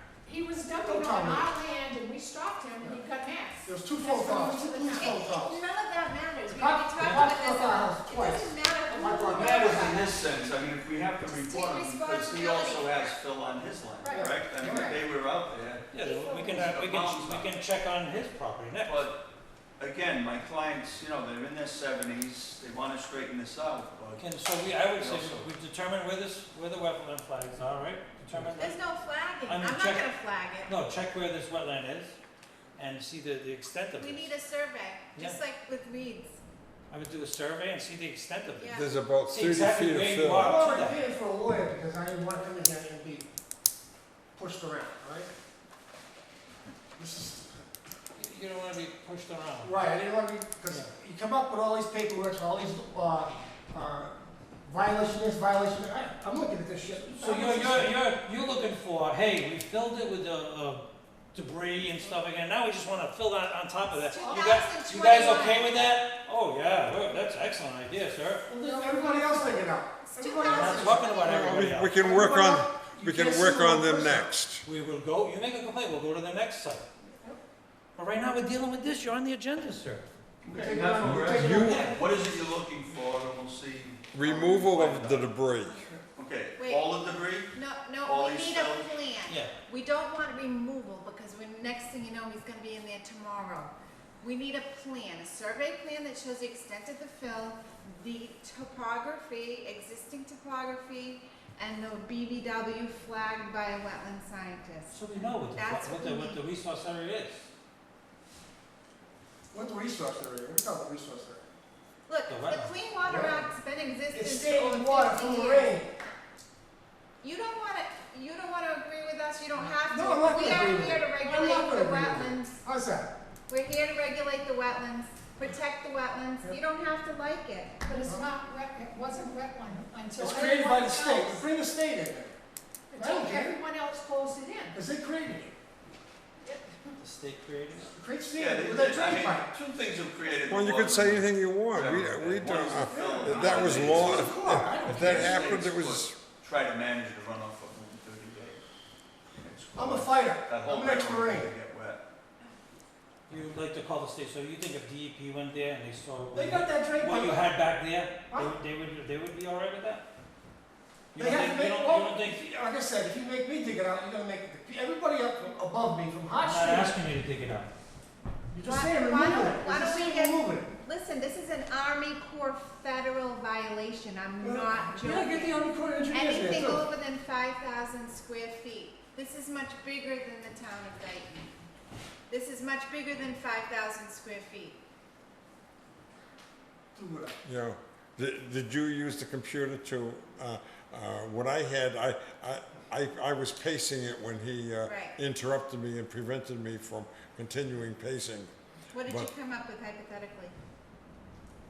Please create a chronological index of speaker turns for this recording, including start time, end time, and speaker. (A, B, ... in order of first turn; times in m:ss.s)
0:00.2-0:05.2 A
0:00.7-0:01.5 B
0:03.6-0:05.6 B
0:04.9-0:10.2 C
0:06.5-0:10.0 B
0:07.0-0:07.3 D
0:09.0-0:09.6 A
0:09.4-0:17.5 E
0:11.4-0:13.2 C
0:14.0-0:15.0 A
0:14.1-0:15.0 B
0:15.9-0:19.0 D
0:16.1-0:16.4 A
0:18.8-0:19.2 E
0:19.8-0:24.3 E
0:24.2-0:28.8 D
0:25.0-0:25.5 E
0:28.6-0:30.7 C
0:29.4-0:30.1 D
0:30.6-0:32.2 D
0:32.8-0:34.3 D
0:33.9-0:36.4 C
0:36.9-0:41.0 D
0:38.6-0:39.0 C
0:38.7-0:40.6 F
0:40.4-0:43.3 B
0:44.4-0:45.3 B
0:47.0-0:47.5 B
0:48.2-0:49.7 D
0:49.6-0:54.1 B
0:54.6-0:58.0 B
0:57.0-1:08.5 D
1:04.0-1:05.8 C
1:08.5-1:11.1 B
1:08.5-1:09.7 A
1:10.1-1:11.7 C
1:10.5-1:12.0 D
1:11.2-1:14.6 F
1:12.0-1:14.3 B
1:14.6-1:16.8 D
1:18.0-1:20.0 D
1:20.4-1:25.3 E
1:20.5-1:22.0 B
1:21.0-1:21.9 F
1:21.6-1:21.9 D
1:24.1-1:25.8 F
1:26.2-1:28.9 E
1:26.6-1:26.9 C
1:27.4-1:46.4 C
1:29.3-1:29.5 D
1:44.9-1:47.5 D
1:49.5-1:51.4 B
1:52.1-1:55.7 C
1:52.3-1:52.8 D
1:53.0-1:53.5 B
1:54.1-1:55.9 B
1:57.2-2:02.6 C
1:59.9-2:03.1 B
2:03.5-2:07.8 C
2:07.8-2:11.4 A
2:10.2-2:12.3 B
2:12.9-2:14.8 A
2:13.0-2:13.6 B
2:14.7-2:15.5 B
2:16.4-2:16.9 A
2:17.0-2:17.9 D
2:17.9-2:19.5 B
2:18.3-2:24.4 E
2:20.5-2:26.2 F
2:22.8-2:25.5 B
2:25.0-2:28.6 E
2:29.4-2:32.0 E
2:29.7-2:31.5 B
2:33.3-2:40.0 D
2:36.3-2:37.4 B
2:41.1-2:42.4 D
2:41.2-2:47.0 B
2:46.4-2:47.7 D
2:48.5-2:50.7 B
2:48.6-3:01.5 C
2:54.4-2:56.9 B
3:02.3-3:04.8 C
3:06.9-3:07.4 B
3:07.4-3:18.5 F
3:14.8-3:15.2 C
3:18.9-3:20.5 C